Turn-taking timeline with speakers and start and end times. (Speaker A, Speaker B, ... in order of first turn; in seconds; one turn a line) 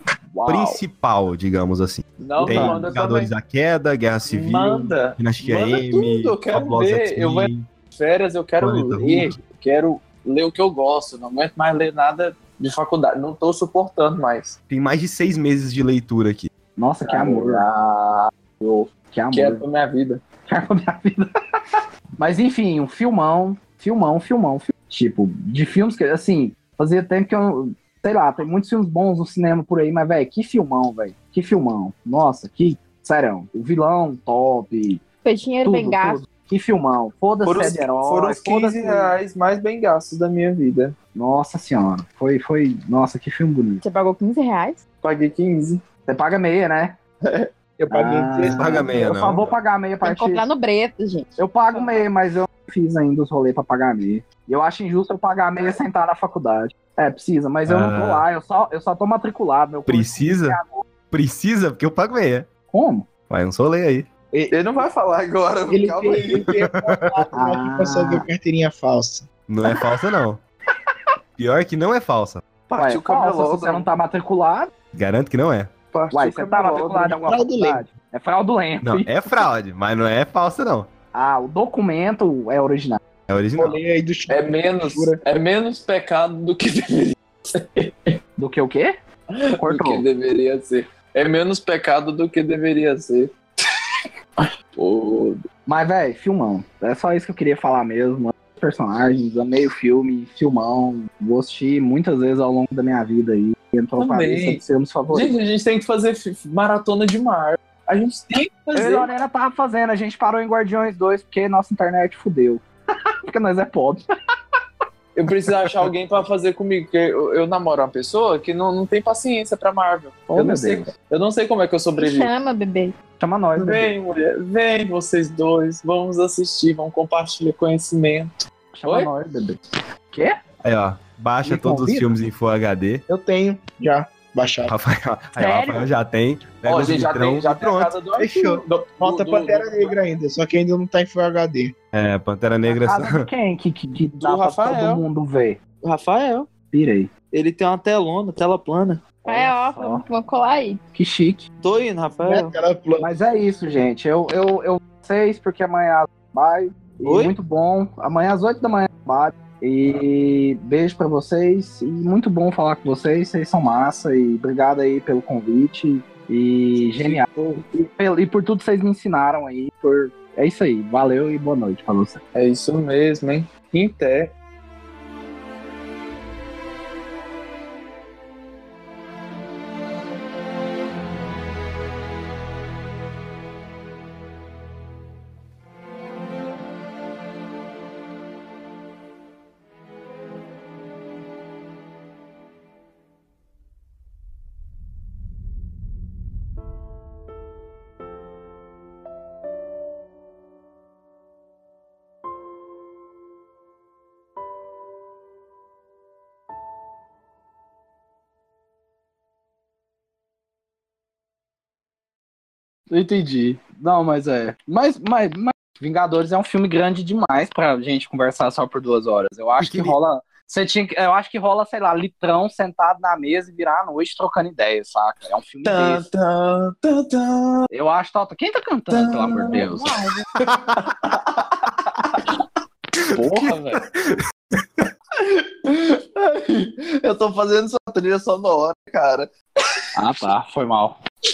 Speaker A: 0.3-0.8
Speaker B: 0.5-7.7
Speaker A: 2.2-3.3
Speaker C: 2.4-2.8
Speaker A: 4.2-14.6
Speaker B: 8.6-9.4
Speaker B: 14.7-16.5
Speaker C: 16.8-17.6
Speaker A: 17.0-18.3
Speaker C: 18.6-19.6
Speaker A: 19.3-20.2
Speaker C: 20.4-35.0
Speaker D: 35.2-36.2
Speaker C: 35.6-39.1
Speaker A: 37.4-41.0
Speaker C: 41.1-43.8
Speaker D: 43.8-44.8
Speaker A: 45.0-45.8
Speaker C: 46.0-47.0
Speaker E: 47.8-49.0
Speaker C: 47.9-50.4
Speaker B: 48.4-49.5
Speaker D: 50.0-51.8
Speaker C: 51.4-60.8
Speaker B: 57.6-58.2
Speaker B: 59.9-60.6
Speaker B: 61.1-62.5
Speaker C: 62.7-63.1
Speaker B: 63.3-64.1
Speaker A: 64.5-66.5
Speaker E: 65.7-69.3
Speaker B: 66.5-67.0
Speaker C: 67.3-68.2
Speaker B: 69.5-70.4
Speaker B: 71.4-72.4
Speaker A: 72.7-73.9
Speaker C: 72.8-74.7
Speaker B: 74.9-75.7
Speaker A: 75.9-77.2
Speaker C: 76.1-79.2
Speaker E: 77.2-77.8
Speaker B: 78.8-80.9
Speaker C: 81.1-83.0
Speaker B: 83.3-83.8
Speaker E: 83.6-85.2
Speaker A: 84.3-88.1
Speaker C: 88.4-88.9
Speaker A: 89.3-93.3
Speaker C: 89.6-90.0
Speaker A: 94.7-95.4
Speaker C: 95.7-105.3
Speaker A: 104.0-109.1
Speaker C: 108.7-112.6
Speaker C: 113.2-114.0
Speaker A: 115.1-122.3
Speaker C: 120.3-120.9
Speaker D: 122.0-122.9
Speaker C: 123.2-123.9
Speaker A: 123.5-128.3
Speaker C: 128.7-129.6
Speaker A: 128.8-129.1
Speaker C: 130.1-130.4
Speaker B: 130.6-133.0
Speaker C: 131.4-132.1
Speaker E: 133.1-134.7
Speaker B: 134.7-138.6
Speaker C: 135.4-135.9
Speaker A: 136.6-139.9
Speaker E: 139.0-141.7
Speaker B: 141.9-143.2
Speaker C: 142.6-145.6
Speaker A: 144.1-145.0
Speaker A: 145.8-146.5
Speaker C: 146.7-147.1
Speaker A: 147.3-149.2
Speaker C: 149.2-150.0
Speaker D: 149.2-150.8
Speaker C: 150.9-151.4
Speaker A: 151.6-152.5
Speaker E: 152.2-153.1
Speaker C: 153.0-172.2
Speaker A: 157.0-157.3
Speaker A: 166.8-167.6
Speaker A: 172.3-174.3
Speaker C: 212.9-226.0
Speaker B: 219.6-219.9
Speaker A: 225.6-227.7
Speaker C: 227.7-229.9
Speaker A: 228.9-232.4
Speaker B: 230.5-230.8
Speaker A: 233.1-233.8
Speaker B: 233.1-234.8
Speaker A: 235.2-239.3
Speaker C: 239.9-241.0